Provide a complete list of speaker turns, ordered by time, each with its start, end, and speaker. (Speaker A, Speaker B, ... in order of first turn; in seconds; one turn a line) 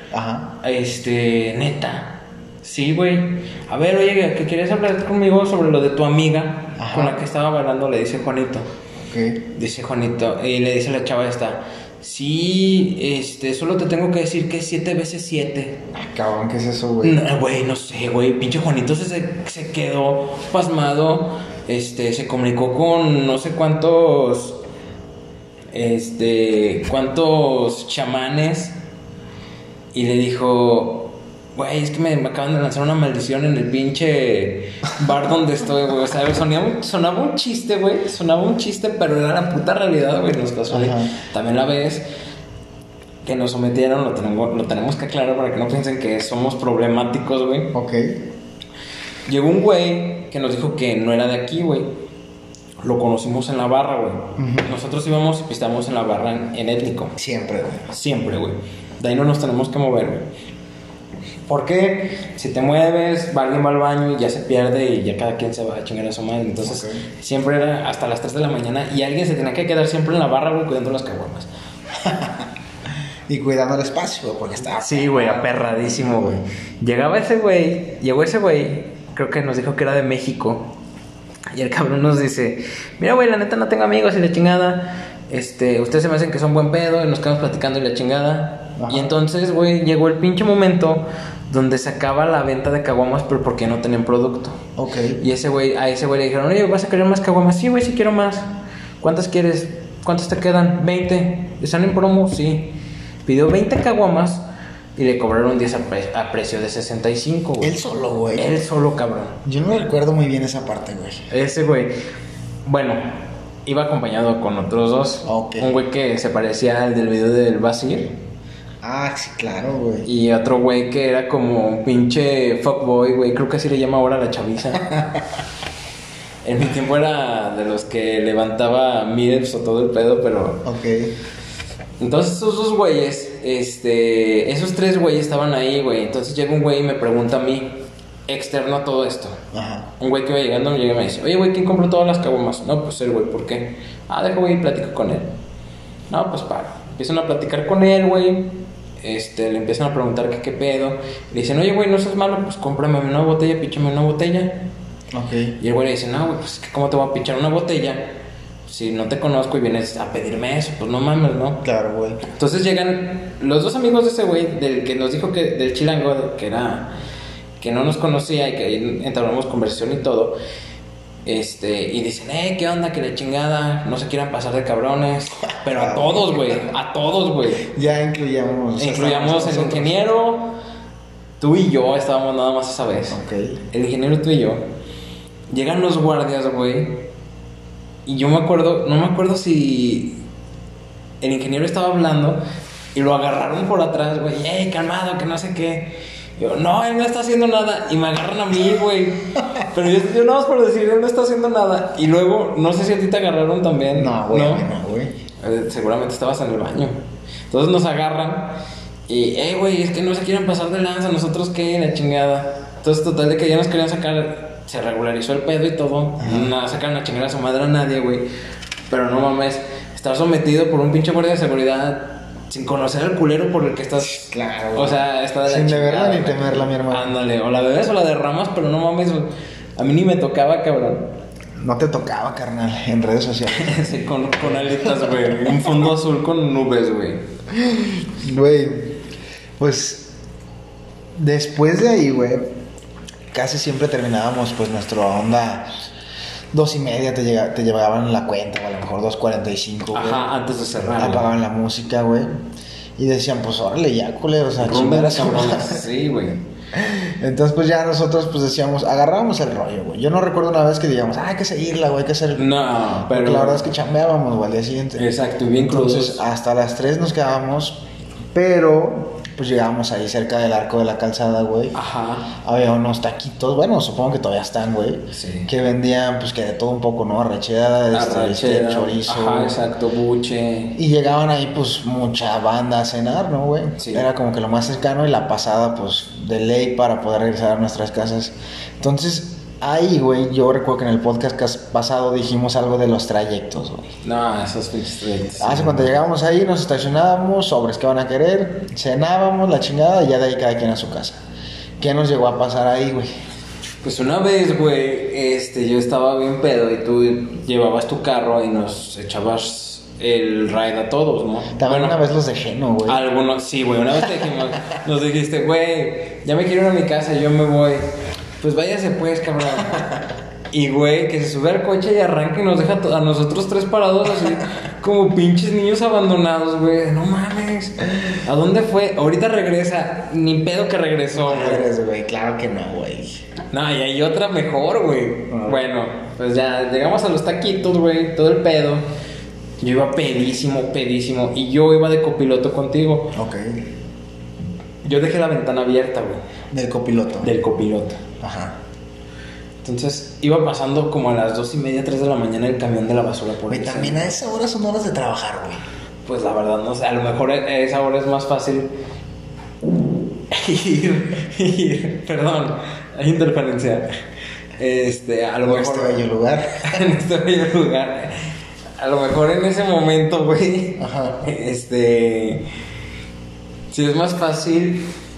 Speaker A: 0.1-0.5
Speaker B: 0.6-8.7
Speaker A: 6.8-7.2
Speaker A: 9.0-9.4
Speaker B: 9.5-15.8
Speaker A: 15.9-17.2
Speaker B: 17.0-24.6
Speaker B: 25.7-28.7
Speaker B: 29.9-42.0
Speaker A: 40.7-41.1
Speaker B: 43.2-47.7
Speaker A: 47.7-48.2
Speaker B: 49.3-51.9
Speaker B: 52.8-57.1
Speaker A: 54.4-54.7
Speaker A: 57.2-57.9
Speaker B: 57.9-60.3
Speaker B: 61.5-71.5
Speaker A: 66.6-67.0
Speaker A: 72.0-72.5
Speaker A: 73.3-76.4
Speaker B: 74.7-80.7
Speaker B: 81.5-94.6
Speaker A: 88.8-89.1
Speaker A: 94.8-95.2
Speaker B: 95.2-98.5
Speaker B: 99.0-104.4
Speaker B: 105.0-109.4
Speaker A: 107.6-108.6
Speaker A: 109.4-111.3
Speaker B: 111.3-111.9
Speaker B: 112.6-118.2
Speaker A: 115.2-115.8
Speaker A: 118.8-120.1
Speaker B: 120.0-124.9
Speaker A: 124.9-125.2
Speaker B: 126.4-130.6
Speaker A: 130.6-131.1
Speaker B: 132.0-137.7
Speaker B: 138.3-139.4
Speaker A: 139.5-139.9
Speaker B: 140.0-145.3
Speaker B: 146.1-154.6
Speaker A: 155.1-155.6
Speaker B: 155.6-158.0
Speaker B: 158.7-161.6
Speaker A: 161.6-162.2
Speaker B: 162.3-166.9
Speaker B: 167.6-170.3
Speaker B: 171.2-177.6
Speaker A: 175.6-176.6
Speaker A: 177.6-180.1
Speaker B: 178.8-180.5
Speaker B: 181.4-183.2
Speaker A: 183.1-183.6
Speaker B: 183.7-184.6
Speaker B: 185.5-187.1
Speaker B: 188.1-190.2
Speaker B: 191.2-192.4
Speaker B: 192.9-204.7
Speaker A: 203.9-205.1
Speaker B: 205.4-206.9
Speaker B: 207.5-218.2
Speaker A: 216.2-216.5
Speaker B: 218.9-231.1
Speaker A: 224.0-227.1
Speaker A: 231.6-233.9
Speaker B: 233.6-237.2
Speaker A: 234.4-235.7
Speaker A: 237.5-239.0
Speaker A: 239.6-240.1
Speaker A: 241.1-242.5
Speaker A: 243.3-245.7
Speaker A: 246.5-250.2
Speaker B: 249.9-251.3
Speaker A: 251.0-252.3
Speaker A: 253.0-255.9
Speaker B: 254.6-256.4
Speaker A: 256.7-262.5
Speaker B: 262.3-263.7
Speaker A: 263.1-265.1
Speaker B: 264.9-266.2
Speaker A: 265.7-267.8
Speaker A: 268.3-271.7
Speaker B: 271.7-272.3
Speaker A: 272.4-279.6
Speaker B: 275.1-275.5
Speaker B: 277.9-280.8
Speaker A: 280.7-293.9
Speaker B: 283.8-284.1
Speaker B: 294.0-295.9
Speaker A: 295.4-301.2
Speaker A: 301.8-303.1
Speaker B: 303.8-312.0
Speaker A: 311.5-313.0
Speaker B: 312.9-317.9
Speaker B: 318.4-319.9
Speaker B: 320.5-331.7
Speaker A: 331.1-333.2
Speaker B: 333.5-338.8
Speaker A: 335.3-335.6
Speaker B: 339.6-343.1
Speaker A: 343.1-343.6
Speaker B: 344.8-346.2
Speaker A: 346.5-347.3
Speaker B: 347.2-348.0
Speaker A: 348.2-348.6
Speaker B: 349.6-354.1
Speaker A: 353.5-355.6
Speaker B: 356.1-358.7
Speaker B: 360.3-363.9
Speaker B: 364.6-368.2
Speaker A: 365.4-366.8
Speaker B: 368.8-372.4
Speaker A: 370.8-371.2
Speaker B: 373.7-374.9